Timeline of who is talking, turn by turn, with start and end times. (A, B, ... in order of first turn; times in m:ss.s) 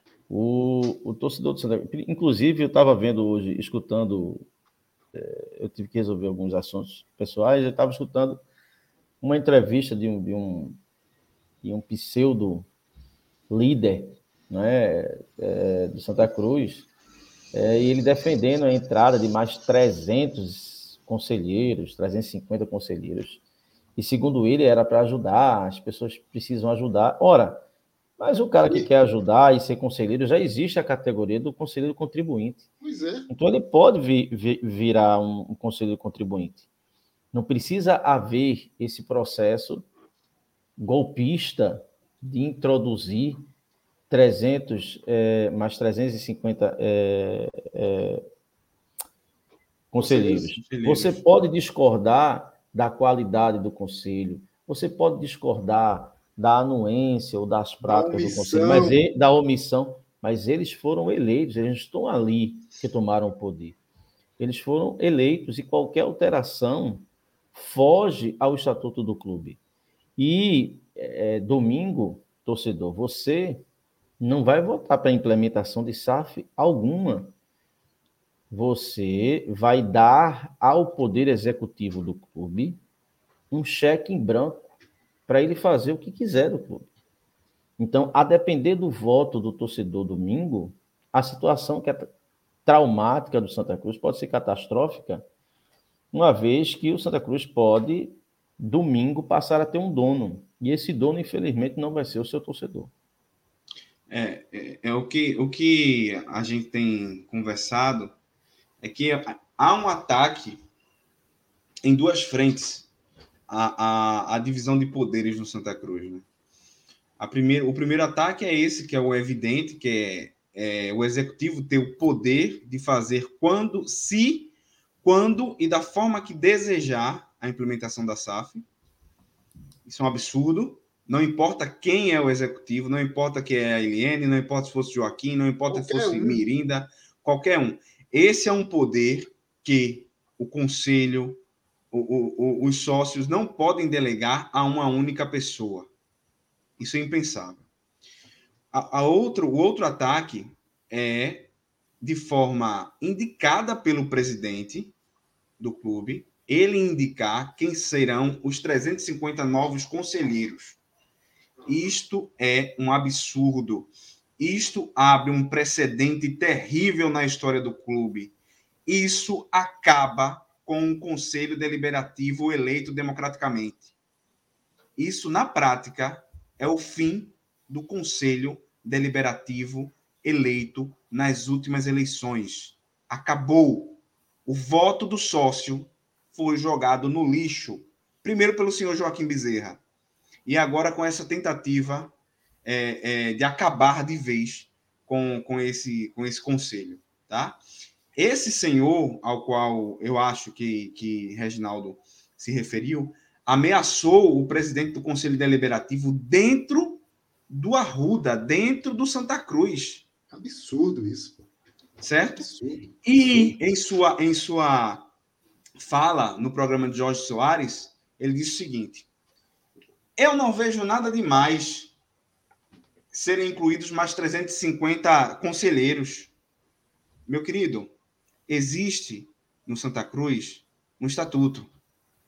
0:00.3-0:04.5 A
0:05.1-0:08.4 A
0:09.2-0:10.8 A
0:11.6-0:12.7 A
0:13.5-0:16.9 A
0:17.5-0:23.4 A
0:24.0-0:27.6 A
0:28.2-0:32.6 A
0:32.8-0:33.3 B
0:33.3-0:36.6 A
0:37.3-0:39.8 A
0:40.8-0:43.4 A
0:44.1-0:48.2 A
0:49.9-1:03.8 A
0:50.0-0:50.5 B
0:50.5-0:51.2 C
0:57.8-0:59.0 B
1:04.4-1:09.6 A
1:10.2-1:13.6 A
1:14.2-1:17.3 A
1:18.5-1:22.8 A
1:23.5-1:24.7 A
1:25.3-1:26.9 A
1:27.8-1:32.1 A
1:32.6-1:35.2 A
1:36.1-1:42.9 A
1:44.1-1:48.1 C
1:48.8-1:50.6 C
1:51.8-1:52.9 C
1:53.5-1:56.2 C
1:57.2-2:08.6 C
2:09.8-2:25.9 C
2:15.7-2:16.5 B
2:26.8-2:27.6 C
2:28.7-2:31.5 C
2:32.0-2:34.9 C
2:35.6-2:40.8 C
2:41.7-2:48.3 C
2:48.8-2:53.9 C
2:55.0-3:09.8 C
3:10.4-3:12.1 C
3:12.6-3:17.6 C
3:18.1-3:30.0 C
3:30.3-3:31.5 B
3:32.0-3:32.5 C
3:32.4-3:33.5 B
3:33.0-3:35.1 C
3:35.8-3:39.0 C
3:40.2-3:41.9 C
3:43.1-3:46.3 C
3:47.3-3:47.9 C
3:48.5-3:51.7 C